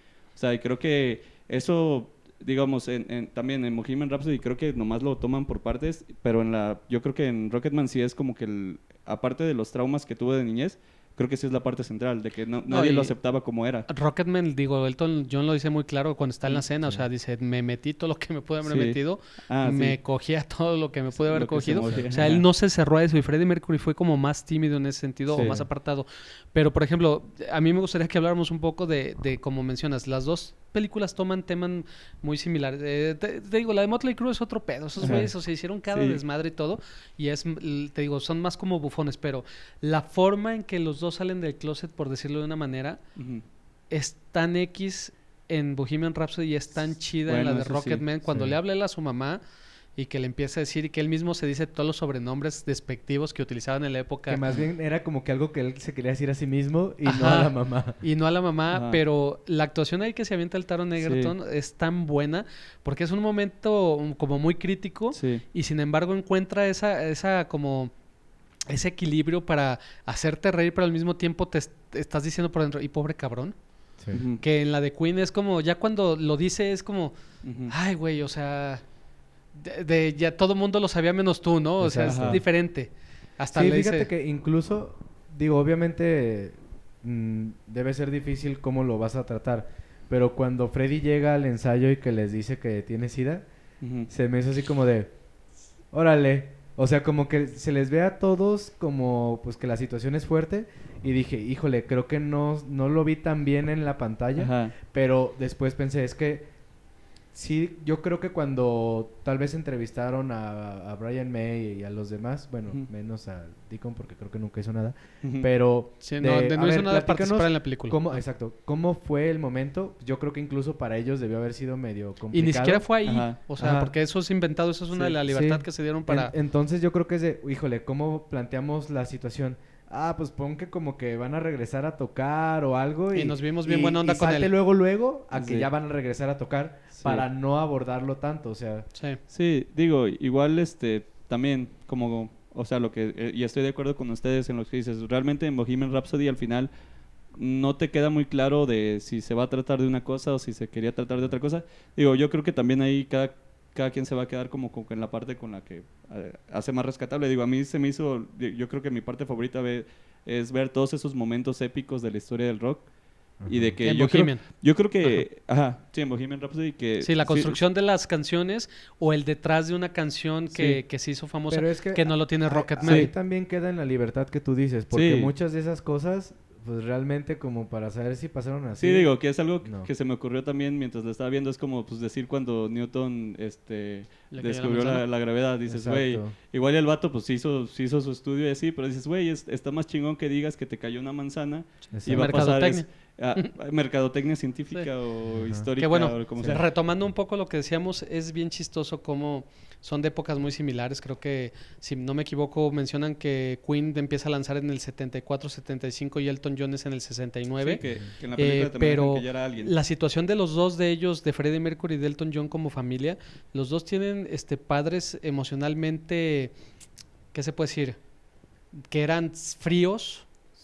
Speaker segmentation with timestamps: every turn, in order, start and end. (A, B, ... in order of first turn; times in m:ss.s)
0:00.4-0:13.9 A
0:12.7-0:13.1 B
0:13.9-0:43.0 B
0:18.6-0:19.0 A
0:19.5-0:20.0 A
0:21.2-0:22.4 A
0:21.7-0:22.3 C
0:25.3-0:25.6 A
0:25.4-0:25.6 C
0:35.0-0:35.3 A
0:35.0-0:35.3 C
0:35.9-0:36.2 A
0:43.2-0:43.4 A
0:43.9-0:49.4 B
0:47.3-0:48.0 A
0:48.2-0:48.6 C
0:50.0-0:54.4 B
0:54.3-0:58.0 C
0:57.0-1:07.9 B
0:58.7-0:59.0 A
1:01.0-1:01.3 A
1:05.1-1:05.4 A
1:08.7-1:13.6 B
1:14.1-1:14.4 A
1:14.4-1:17.1 B
1:17.4-1:17.7 A
1:17.7-1:18.8 B
1:19.5-1:24.1 B
1:21.8-1:22.4 C
1:22.0-1:22.4 A
1:23.5-1:33.5 C
1:33.8-1:34.1 A
1:34.1-1:35.1 C
1:35.9-1:46.5 C
1:44.4-1:44.7 A
1:47.3-2:02.9 C
1:55.2-1:55.5 A
1:56.0-1:58.0 B
2:02.3-2:06.3 B
2:03.0-2:03.4 A
2:03.6-2:03.9 C
2:05.2-2:18.9 C
2:13.1-2:14.5 B
2:15.3-2:15.7 A
2:17.0-2:17.2 A
2:18.9-2:19.2 B
2:19.3-2:26.7 A
2:27.3-2:42.9 A
2:43.4-2:43.8 C
2:43.5-2:47.6 A
2:43.8-2:44.4 B
2:47.0-2:53.1 B
2:50.5-2:50.8 A
2:51.5-2:59.1 C
2:52.8-2:53.1 A
2:54.9-2:55.3 A
2:58.8-3:16.6 A
2:59.6-2:59.9 C
3:04.3-3:05.0 B
3:05.7-3:06.3 C
3:11.9-3:12.5 C
3:12.1-3:13.5 B
3:15.4-3:15.7 C
3:15.8-3:27.8 B
3:27.6-3:29.7 A
3:28.4-3:36.5 B
3:37.3-3:38.0 B
3:38.9-3:40.3 B